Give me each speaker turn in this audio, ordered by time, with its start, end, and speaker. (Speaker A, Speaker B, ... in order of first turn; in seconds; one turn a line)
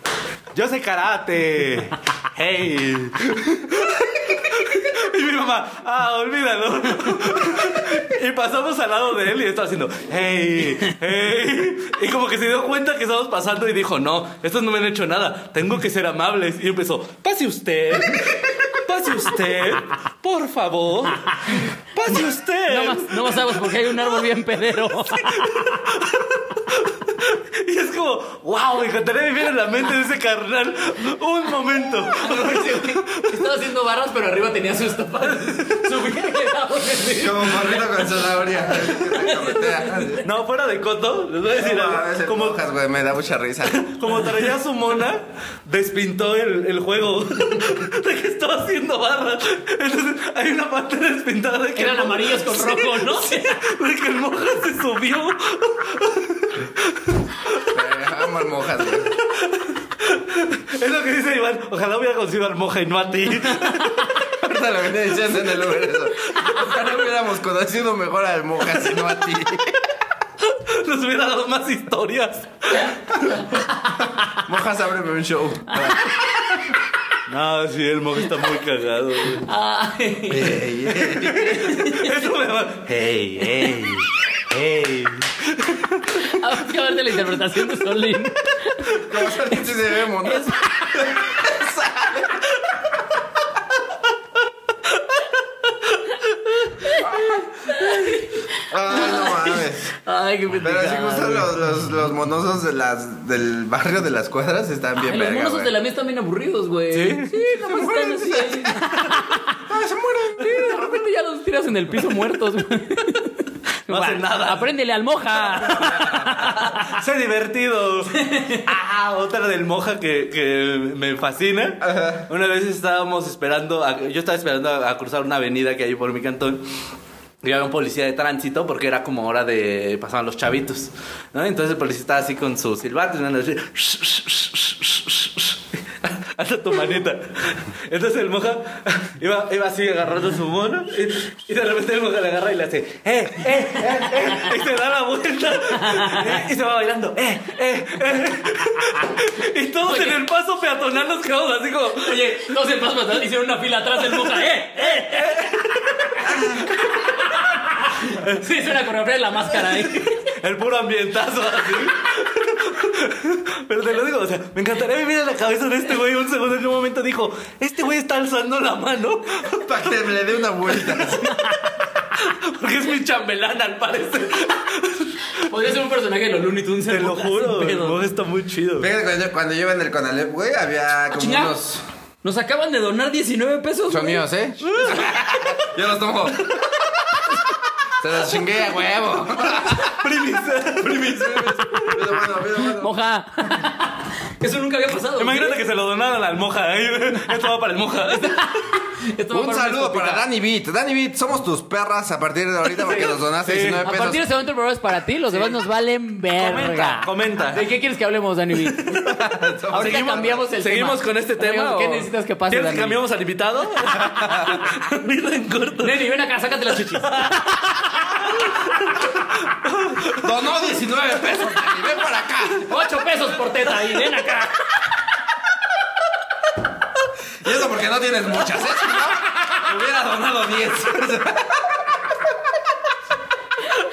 Speaker A: 0.5-23.6
Speaker B: 22.7-25.8
Speaker A: 25.1-33.4
Speaker B: 32.1-37.8
Speaker A: 35.2-36.0
Speaker C: 37.1-40.2
Speaker B: 39.0-40.2
Speaker A: 40.2-42.6
Speaker C: 41.5-43.8
Speaker A: 43.6-57.6
Speaker B: 51.8-53.6
Speaker C: 57.7-59.1
Speaker A: 59.2-64.1
Speaker C: 64.3-69.8
Speaker A: 70.4-73.0
Speaker B: 73.9-74.3
Speaker C: 74.4-76.1
Speaker A: 77.3-79.5
Speaker B: 79.4-80.6
Speaker C: 80.3-81.6
Speaker A: 80.9-86.2
Speaker B: 81.5-82.2
Speaker B: 86.2-89.0
Speaker C: 88.9-92.5
Speaker B: 90.2-90.7
Speaker B: 96.8-101.5
Speaker C: 97.0-97.3
Speaker C: 98.7-99.9
Speaker C: 100.6-105.7
Speaker B: 105.0-109.6
Speaker A: 106.9-107.4
Speaker C: 107.5-108.9
Speaker C: 109.7-110.9
Speaker B: 110.4-117.0
Speaker A: 113.9-114.7
Speaker A: 115.7-126.7
Speaker C: 115.7-116.5
Speaker B: 118.1-118.7
Speaker C: 121.8-122.2
Speaker A: 127.4-152.3
Speaker B: 145.8-146.3
Speaker B: 149.8-150.2
Speaker B: 152.0-155.5
Speaker A: 154.2-156.8
Speaker B: 156.0-160.3
Speaker A: 159.8-170.0
Speaker C: 169.5-171.3
Speaker A: 170.7-171.2
Speaker B: 171.2-171.7
Speaker A: 172.1-175.2
Speaker B: 175.4-178.0
Speaker A: 176.9-178.9
Speaker C: 178.8-181.8
Speaker B: 181.1-181.6
Speaker B: 182.2-184.2
Speaker C: 183.9-186.6
Speaker A: 184.6-185.5
Speaker C: 188.0-190.0
Speaker A: 189.5-192.1
Speaker C: 190.8-192.9
Speaker B: 192.8-195.6
Speaker A: 195.2-198.4
Speaker B: 198.1-200.2
Speaker C: 199.3-204.2
Speaker B: 202.8-203.1
Speaker A: 203.4-203.9
Speaker B: 203.8-209.2
Speaker A: 206.3-207.6
Speaker C: 208.9-210.4
Speaker B: 209.7-213.0
Speaker A: 209.7-216.0
Speaker C: 214.0-214.6
Speaker B: 215.8-218.2
Speaker A: 217.0-217.4
Speaker A: 218.2-218.9
Speaker A: 219.4-220.3
Speaker C: 220.2-222.7
Speaker B: 222.6-224.8
Speaker C: 227.4-232.2